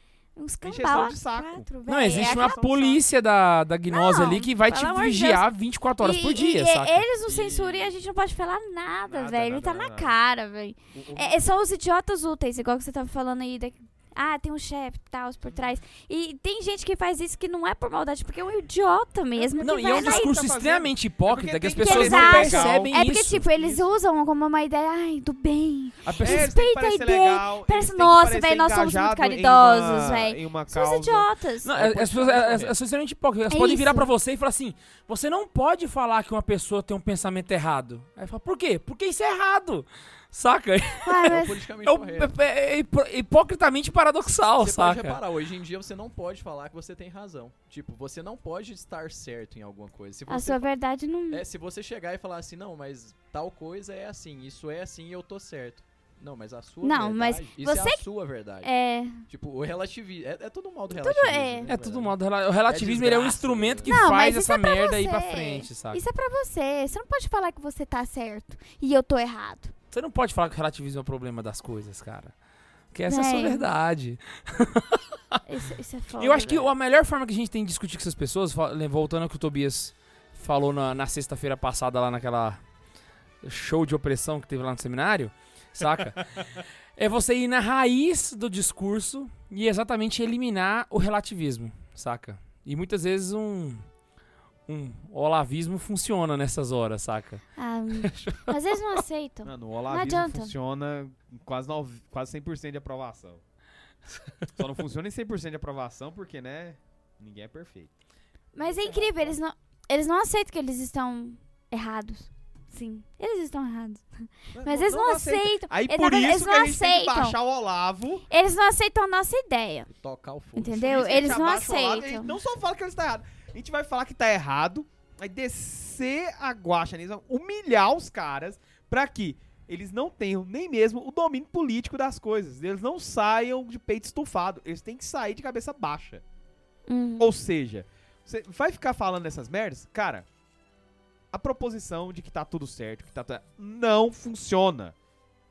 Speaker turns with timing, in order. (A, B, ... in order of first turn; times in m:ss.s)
0:00.4-0:02.6 A
0:00.6-0:03.0 B
0:01.8-0:07.0 C
0:03.9-0:05.4 A
0:06.0-0:20.5 A
0:07.2-0:08.0 D
0:09.1-0:10.2 B
0:10.9-0:11.4 B
0:15.5-0:15.8 B
0:19.4-0:23.9 B
0:19.6-0:23.4 C
0:21.8-0:31.7 A
0:26.0-0:32.7 B
0:26.0-0:26.5 C
0:31.6-0:45.2 C
0:33.5-0:34.1 A
0:41.0-0:41.6 A
0:41.3-0:42.3 D
0:44.6-0:50.7 D
0:50.3-0:51.4 A
0:51.3-0:58.7 D
0:56.8-0:58.0 A
0:58.6-0:59.2 A
0:59.3-1:02.1 D
1:00.9-1:01.7 A
1:01.7-1:06.0 C
1:02.6-1:04.0 D
1:03.9-1:09.7 A
1:09.9-1:12.4 C
1:12.9-1:15.4 C
1:13.1-1:13.6 A
1:15.4-1:16.7 A
1:16.2-1:22.6 C
1:23.4-1:26.2 C
1:27.0-1:33.8 C
1:34.7-1:37.4 C
1:37.6-1:40.5 A
1:38.0-1:38.5 C
1:39.4-1:43.4 B
1:44.6-1:47.9 B
1:48.5-1:57.4 A
1:48.6-1:49.4 B
1:54.5-1:58.2 B
1:58.3-1:59.9 A
1:59.9-2:00.9 D
2:00.6-2:02.3 A
2:00.6-2:16.2 B
2:16.9-2:17.3 A
2:17.2-2:20.2 B
2:21.3-2:24.9 B